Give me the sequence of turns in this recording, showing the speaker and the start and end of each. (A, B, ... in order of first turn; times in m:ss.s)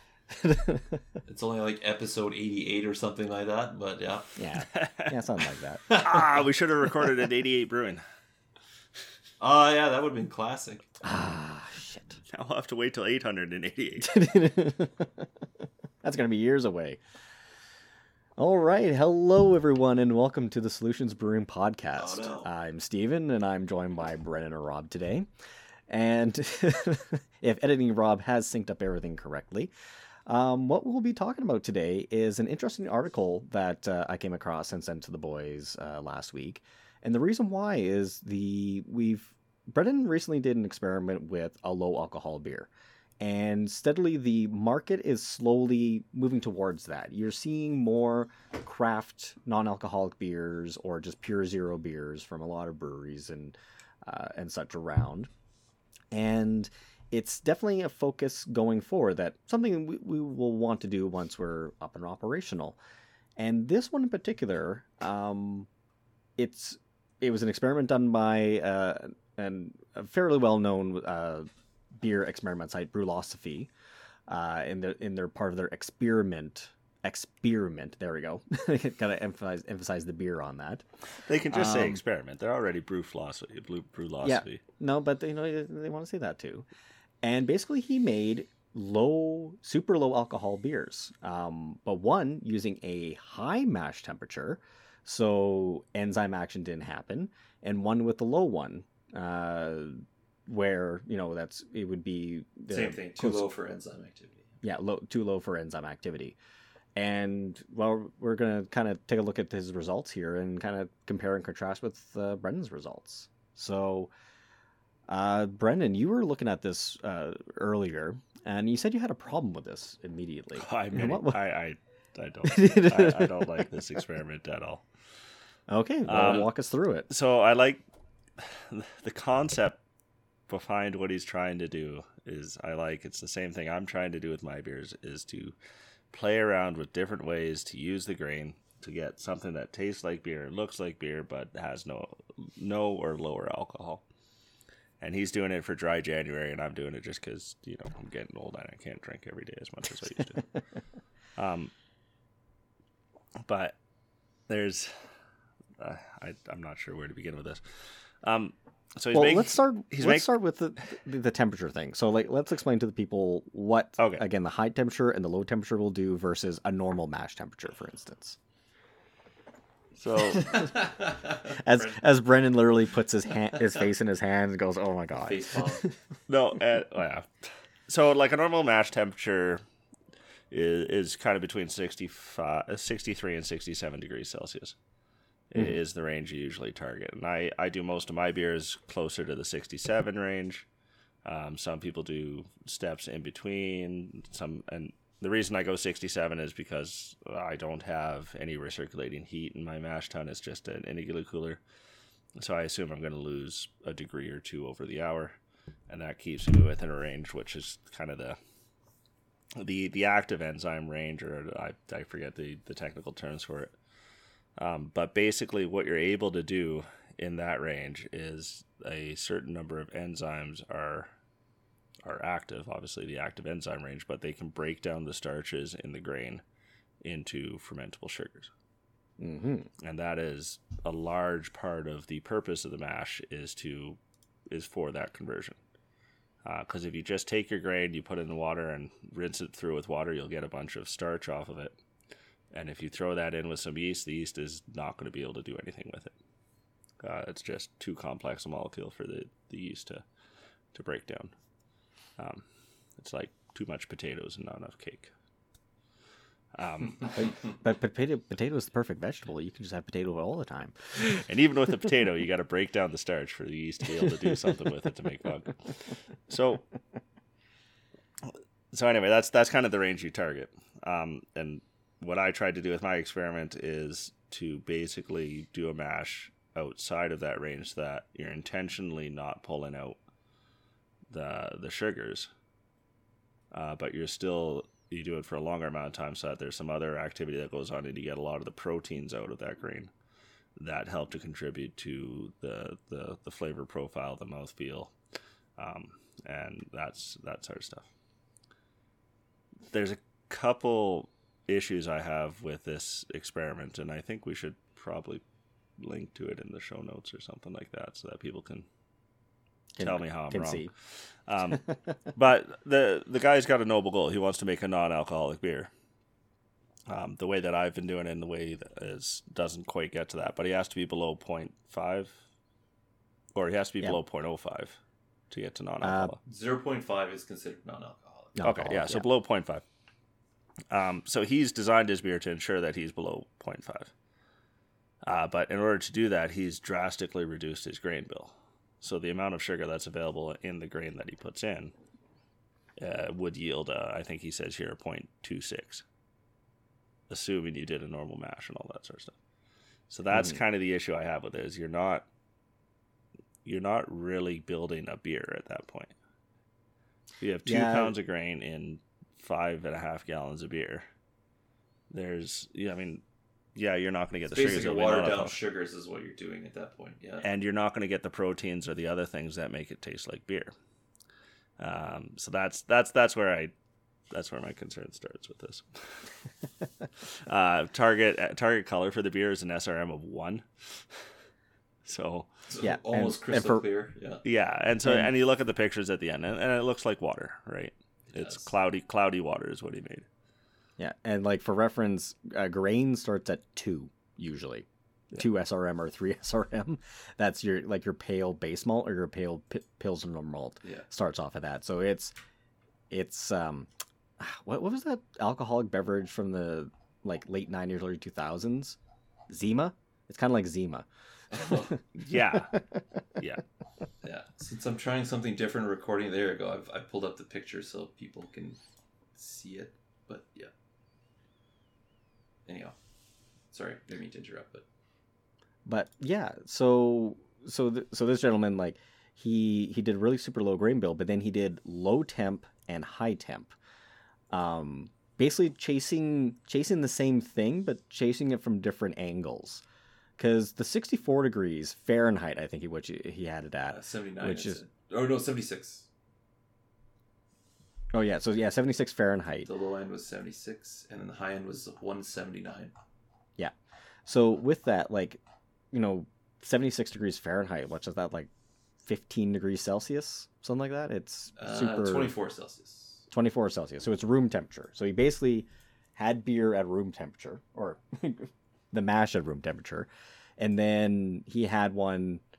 0:00.3-0:01.0 A
0:01.2-0:04.3 B
0:04.4-0:05.9 A
0:04.6-0:05.2 C
0:05.9-0:08.0 C
0:05.9-0:06.2 B
0:09.4-0:10.9 B
0:11.0-0:12.2 A
0:12.3-0:14.2 C
0:14.0-0:15.3 A
0:16.0-0:17.0 A
0:18.4-0:25.3 A
0:22.0-0:22.4 B
0:25.9-0:29.7 A
0:30.3-0:42.7 A
0:43.2-0:55.3 A
0:56.1-1:02.8 A
1:03.4-1:05.7 A
1:06.4-1:13.7 A
1:14.3-1:20.8 A
1:21.2-1:24.6 C
1:21.5-1:22.0 A
1:24.2-1:26.7 A
1:27.2-1:43.4 A
1:42.7-1:44.5 B
1:44.6-1:46.4 A
1:47.0-1:54.1 A
1:55.1-2:01.4 A
2:00.6-2:04.8 C
2:02.4-2:03.7 A
2:05.7-2:07.1 A
2:06.0-2:06.5 C
2:07.1-2:07.8 C
2:08.4-2:09.8 C
2:10.5-2:15.5 C
2:16.1-2:24.0 C
2:25.0-2:30.5 C
2:31.4-2:31.7 C
2:33.4-2:33.8 C
2:34.5-2:35.0 C
2:35.8-2:40.3 C
2:39.1-2:48.4 A
2:44.0-2:44.2 C
2:50.0-2:50.7 C
2:50.5-2:51.9 B
2:51.5-2:55.9 A
2:55.2-2:55.8 B
2:56.3-2:57.3 C
2:57.9-2:59.6 C
3:00.5-3:04.7 C
3:05.5-3:10.6 C
3:11.2-3:21.6 C
3:22.4-3:25.4 C
3:25.9-3:28.4 C
3:29.6-3:33.7 C
3:34.6-3:41.1 C
3:42.0-3:46.4 C
3:47.0-3:48.5 C
3:49.2-3:49.7 A
3:49.8-3:54.0 C
3:54.5-3:55.6 C
3:56.4-4:01.8 C
4:02.5-4:06.1 C
4:07.0-4:10.0 C
4:10.7-4:11.3 C
4:12.2-4:12.4 C
4:13.0-4:15.1 C
4:16.5-4:17.2 C
4:17.1-4:20.9 A
4:21.0-4:26.7 C
4:28.3-4:40.0 C
4:41.1-4:42.3 C
4:43.5-4:49.9 C
4:50.6-4:54.9 C
4:55.6-4:57.9 C
4:59.7-5:05.2 C
5:05.8-5:08.6 C
5:09.8-5:10.7 A
5:09.8-5:15.7 C
5:16.9-5:22.2 C
5:23.3-5:24.8 C
5:25.3-5:26.2 C
5:25.8-5:26.2 A
5:26.2-5:28.4 B
5:28.4-5:29.0 A
5:28.4-5:29.6 C
5:30.7-5:33.9 C
5:35.0-5:41.7 C
5:42.8-5:45.8 C
5:47.1-5:49.1 C
5:49.9-5:52.0 C
5:50.1-5:50.4 A
5:53.4-5:55.9 C
5:57.2-6:00.9 C
5:57.4-5:57.9 A
6:01.9-6:03.0 C
6:03.5-6:05.4 C
6:04.3-6:07.2 B
6:07.2-6:10.5 C
6:11.6-6:13.5 C
6:14.1-6:16.1 C
6:17.0-6:21.1 C
6:21.8-6:22.3 C
6:22.5-6:24.2 B
6:22.6-6:23.6 A
6:24.2-6:30.0 C
6:24.8-6:25.1 A
6:28.1-6:28.4 B
6:30.8-6:42.1 A
6:42.9-6:48.8 A
6:49.3-6:50.8 A
6:51.3-6:51.7 B
6:52.0-6:52.6 C
6:54.0-6:58.6 B
6:59.1-7:00.5 B
7:02.4-7:02.8 B
7:03.5-7:04.6 B
7:05.6-7:13.5 A
7:14.3-7:19.6 A
7:20.2-7:24.6 A
7:23.7-7:25.9 B
7:27.9-7:29.5 A
7:29.4-7:32.7 B
7:34.0-7:35.2 A
7:35.7-7:38.3 A
7:38.8-7:42.1 A
7:41.4-7:43.0 B
7:43.1-7:52.2 A